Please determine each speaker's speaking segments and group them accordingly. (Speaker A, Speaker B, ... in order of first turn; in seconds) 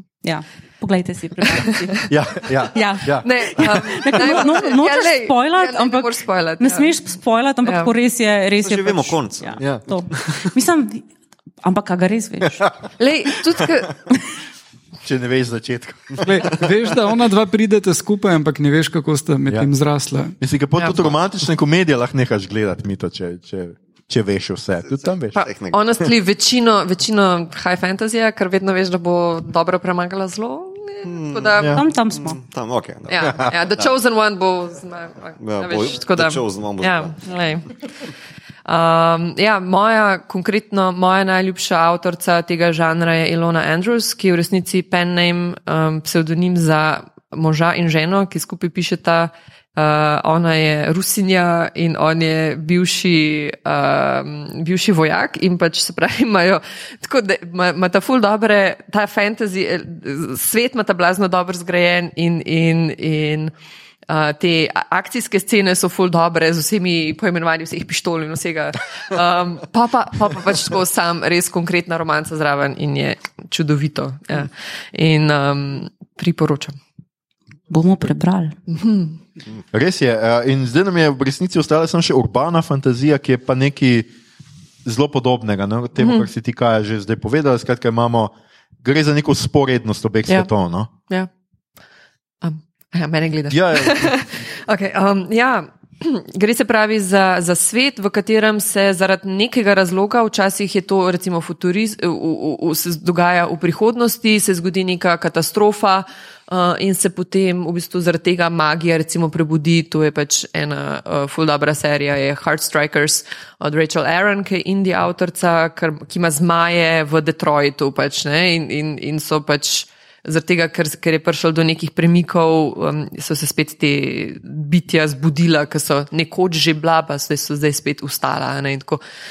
Speaker A: 0.2-2.1, 3.5-11.0, 11.6-12.6, 31.7-32.4, 77.7-78.6
Speaker B: 1.5-2.0, 2.7-6.9, 7.6-7.9, 13.0-14.0, 25.4-31.8, 33.1-37.8, 38.7-63.5, 64.1-76.8, 78.7-79.2, 86.0-86.3, 92.4-129.0
Speaker C: 2.1-4.2, 9.6-9.8, 15.1-16.7, 20.4-25.4, 31.6-31.8, 79.7-84.1, 84.8-88.3, 88.8-90.9, 93.5-94.2
Speaker D: 8.6-10.5, 24.9-25.8, 31.0-33.9, 35.4-37.2
Speaker E: 16.2-20.4